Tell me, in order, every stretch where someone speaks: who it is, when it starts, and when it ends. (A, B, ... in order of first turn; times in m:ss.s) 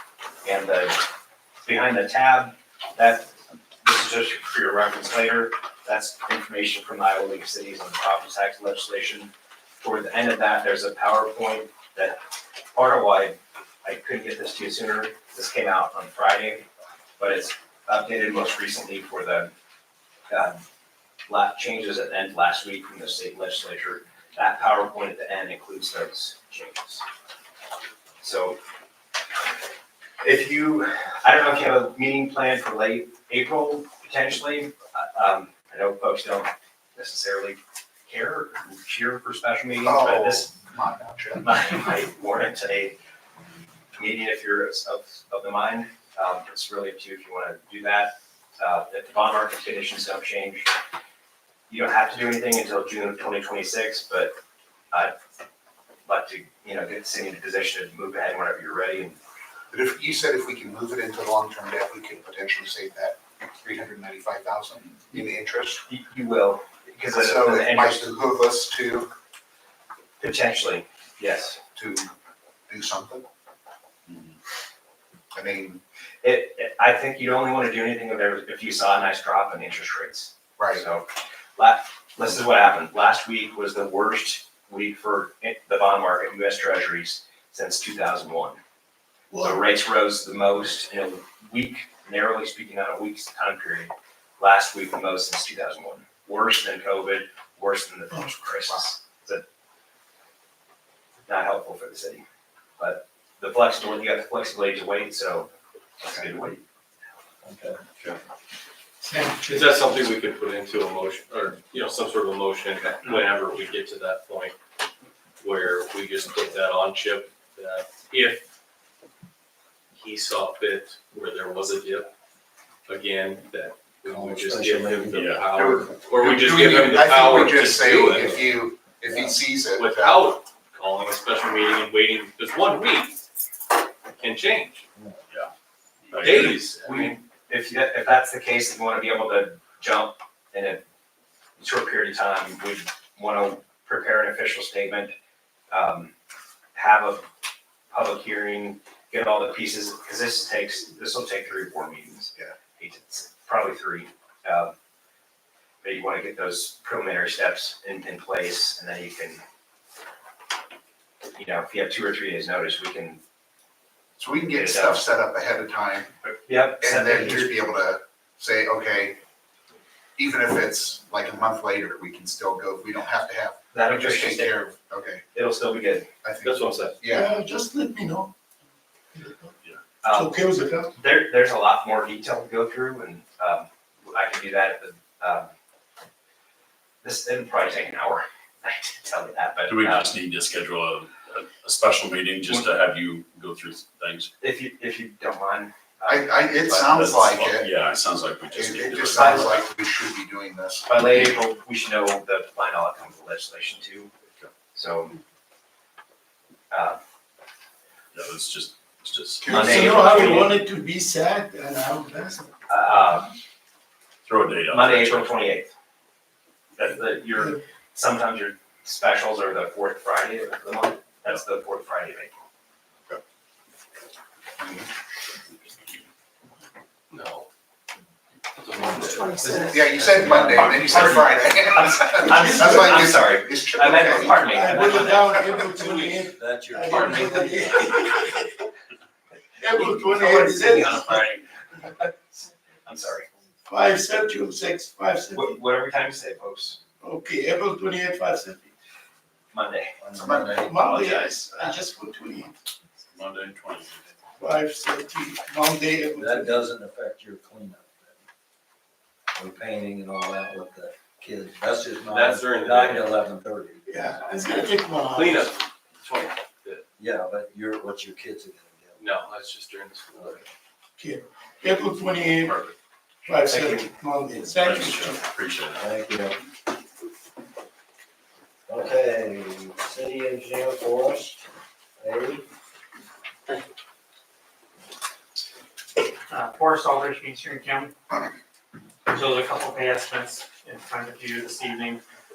0:00.4-0:01.0 A
0:01.6-0:12.2 A
0:12.7-0:16.6 A
0:17.2-0:19.5 A
0:20.3-0:20.6 A
0:21.3-0:27.0 A
0:28.2-0:28.6 A
0:30.2-0:40.5 A
0:39.8-0:41.5 B
0:41.4-0:43.0 A
0:43.9-0:50.6 A
0:51.7-0:54.3 A
0:56.0-0:59.2 A
0:59.7-1:05.8 B
1:05.9-1:08.1 A
1:07.2-1:09.1 B
1:10.2-1:11.6 A
1:11.8-1:12.1 B
1:12.7-1:13.2 B
1:15.3-1:15.8 B
1:16.2-1:21.0 A
1:20.6-1:20.8 B
1:21.6-1:28.6 A
1:29.3-1:29.6 C
1:29.4-1:39.4 A
1:38.1-1:38.4 C
1:41.3-1:42.2 A
1:42.8-1:46.6 A
1:47.4-1:47.8 D
1:49.0-1:49.6 C
1:49.5-1:54.5 E
1:55.4-1:58.4 E
1:59.9-2:02.1 E
2:02.9-2:08.5 E
2:04.1-2:05.3 D
2:05.2-2:05.4 F
2:05.5-2:10.3 B
2:08.0-2:09.5 D
2:09.7-2:13.2 E
2:14.2-2:14.8 E
2:14.9-2:15.2 D
2:16.0-2:16.6 F
2:16.1-2:17.2 E
2:16.2-2:20.8 A
2:21.6-2:25.1 A
2:25.7-2:26.1 A
2:26.7-2:27.3 A
2:27.9-2:34.7 A
2:35.8-2:39.4 A
2:41.4-2:43.2 A
2:44.2-2:46.1 B
2:44.5-2:45.0 A
2:46.2-2:47.5 A
2:46.8-2:49.2 B
2:50.2-2:55.2 B
2:53.7-2:54.6 A
2:55.3-2:56.1 A
2:56.2-2:57.3 B
2:56.4-2:57.0 E
2:57.1-2:58.3 C
2:59.1-2:59.5 C
3:00.0-3:00.4 A
3:00.1-3:00.9 C
3:01.0-3:05.5 A
3:07.0-3:10.1 A
3:09.6-3:14.3 F
3:14.4-3:16.9 A
3:16.1-3:17.7 B
3:16.8-3:19.6 F
3:18.5-3:20.9 B
3:19.2-3:19.5 A
3:20.9-3:24.1 A
3:24.7-3:25.2 A
3:26.7-3:27.0 A
3:28.1-3:30.3 F
3:29.4-3:33.3 C
3:29.5-3:30.5 A
3:29.6-3:30.0 B
3:32.7-3:33.3 A
3:34.2-3:35.3 F
3:34.7-3:35.7 A
3:36.8-3:42.4 A
3:44.6-3:44.9 B
3:47.1-3:47.5 E
3:48.6-3:50.1 E
3:49.6-3:54.5 B
3:50.0-3:51.3 D
3:50.7-3:55.4 A
3:52.3-3:53.0 C
3:54.0-3:58.6 C
3:55.8-3:58.0 D
3:59.6-4:01.2 C
3:59.8-4:02.1 A
4:02.8-4:03.3 A
4:03.7-4:05.6 C
4:05.3-4:06.8 A
4:07.0-4:08.7 C
4:09.5-4:09.9 A
4:10.0-4:10.8 D
4:10.2-4:10.5 B
4:10.3-4:12.6 C
4:13.1-4:14.1 F
4:14.4-4:16.6 C
4:16.1-4:18.2 D
4:19.3-4:23.8 D
4:22.1-4:23.1 E
4:23.8-4:25.5 C
4:25.1-4:26.8 E
4:27.0-4:29.2 D
4:29.0-4:30.4 E
4:30.1-4:30.5 D
4:31.0-4:32.6 C
4:32.4-4:32.7 E
4:33.2-4:35.2 C
4:33.4-4:33.9 A
4:34.5-4:35.8 F
4:35.7-4:36.4 D
4:38.7-4:41.5 D
4:42.0-4:42.4 D
4:46.3-4:47.9 G
4:49.1-4:52.0 G